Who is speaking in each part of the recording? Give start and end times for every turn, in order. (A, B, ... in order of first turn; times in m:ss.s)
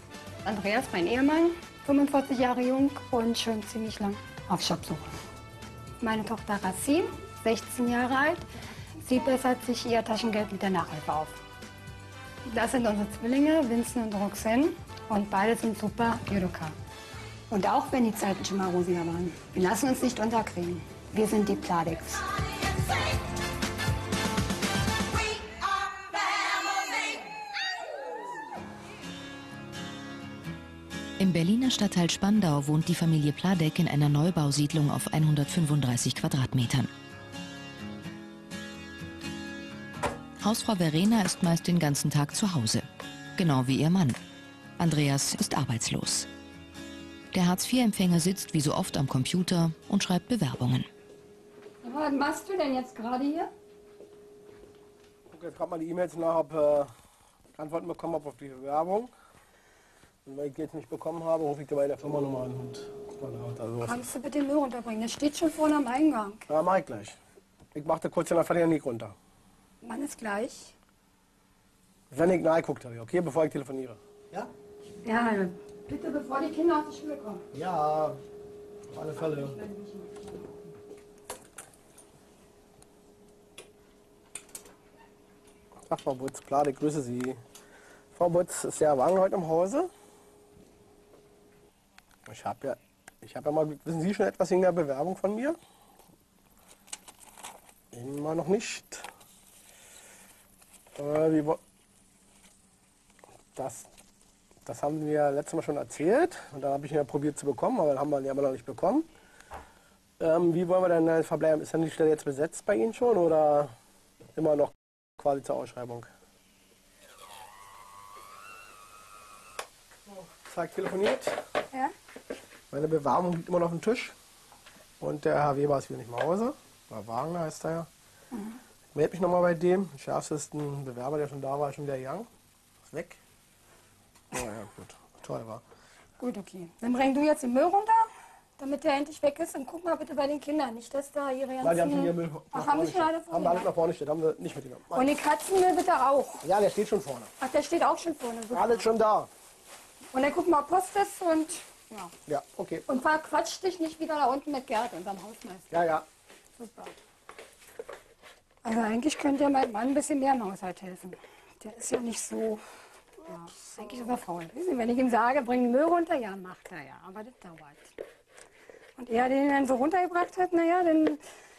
0:00.4-0:05.1 A
0:06.0-0:11.4 A
0:12.4-0:16.8 A
0:17.5-0:22.2 A
0:31.2-0:36.9 B
0:40.4-0:42.9 B
0:43.4-0:44.2 B
0:44.8-0:46.3 B
0:47.3-0:50.9 B
0:51.8-0:53.5 A
0:55.3-0:56.9 C
0:57.6-0:59.1 C
1:00.2-1:04.1 C
1:03.8-1:06.5 A
1:06.5-1:07.2 C
1:07.7-1:09.2 C
1:09.8-1:10.7 A
1:12.1-1:14.5 C
1:15.0-1:17.4 A
1:17.5-1:18.2 C
1:18.9-1:19.6 C
1:19.6-1:20.3 A
1:25.9-1:27.4 C
1:28.2-1:29.9 C
1:32.3-1:35.6 C
1:37.9-1:39.1 C
1:41.0-1:41.6 C
1:43.6-1:43.9 C
1:44.6-1:49.1 C
1:50.2-1:53.7 C
1:54.4-1:56.1 C
2:00.1-2:01.4 C
2:02.7-2:04.2 C
2:05.0-2:07.9 C
2:08.3-2:08.6 A
2:08.9-2:12.3 C
2:12.9-2:13.2 C
2:14.3-2:15.6 C
2:16.2-2:23.7 A
2:21.6-2:25.1 C
2:24.9-2:26.5 A
2:26.4-2:27.3 C
2:27.4-2:28.9 A
2:28.5-2:29.3 C
2:30.1-2:32.1 A
2:32.3-2:32.9 C
2:32.9-2:35.7 A
2:35.7-2:36.1 C
2:36.6-2:36.9 A
2:38.6-2:42.6 A
2:43.2-2:48.0 A
2:49.0-2:51.2 A